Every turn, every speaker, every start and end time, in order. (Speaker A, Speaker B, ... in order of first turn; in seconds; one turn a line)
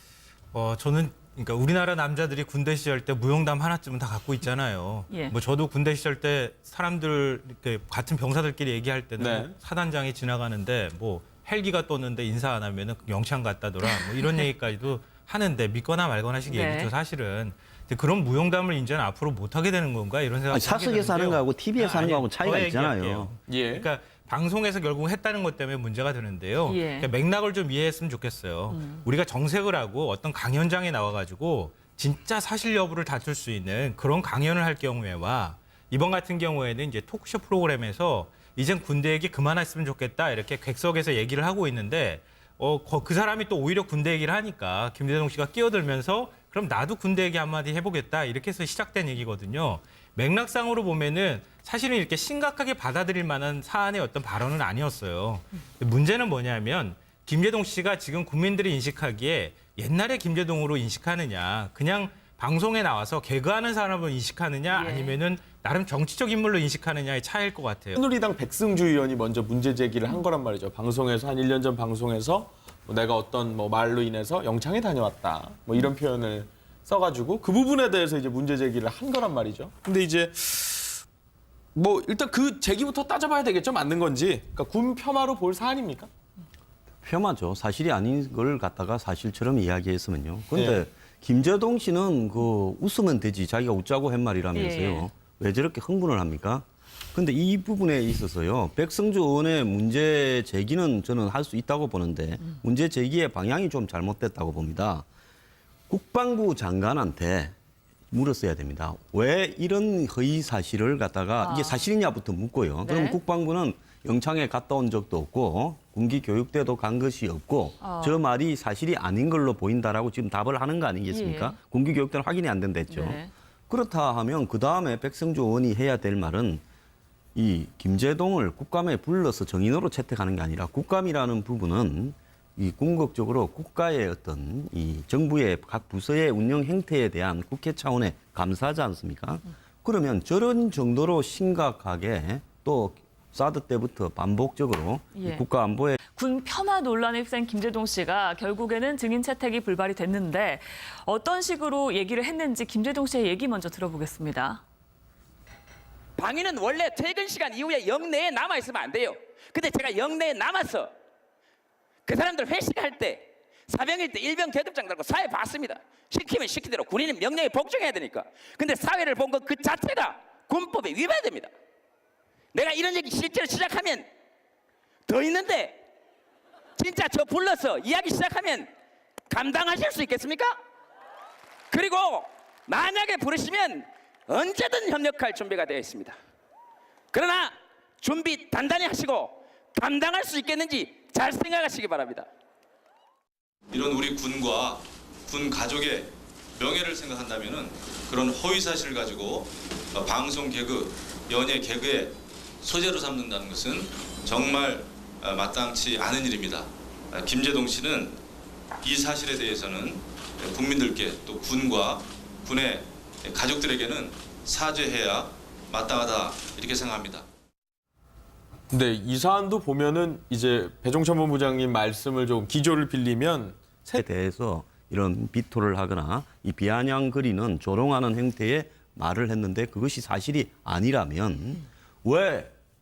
Speaker A: 0.5-68.0
Speaker B: 9.2-9.5
Speaker C: 16.5-16.9
Speaker D: 20.5-23.3
Speaker B: 23.5-23.9
Speaker C: 26.6-27.1
Speaker C: 28.7-29.0
Speaker C: 64.7-65.1
Speaker B: 67.9-81.0
Speaker B: 81.7-86.1
Speaker D: 87.0-105.0
Speaker B: 90.5-90.8
Speaker C: 94.5-95.0
Speaker D: 105.9-107.5
Speaker D: 108.1-126.6
Speaker C: 111.4-111.8
Speaker C: 112.8-113.2
Speaker C: 117.8-118.2
Speaker C: 121.1-121.5
Speaker C: 122.9-123.3
Speaker D: 127.3-146.0
Speaker C: 145.1-145.4
Speaker C: 146.1-154.6
Speaker E: 156.2-160.9
Speaker E: 162.1-171.5
Speaker E: 172.5-174.1
Speaker E: 175.1-175.8
Speaker E: 176.8-178.7
Speaker E: 179.3-180.6
Speaker E: 181.7-186.2
Speaker E: 187.1-192.3
Speaker F: 193.7-208.2
Speaker F: 208.8-217.2
Speaker B: 218.7-224.0
Speaker D: 223.9-232.5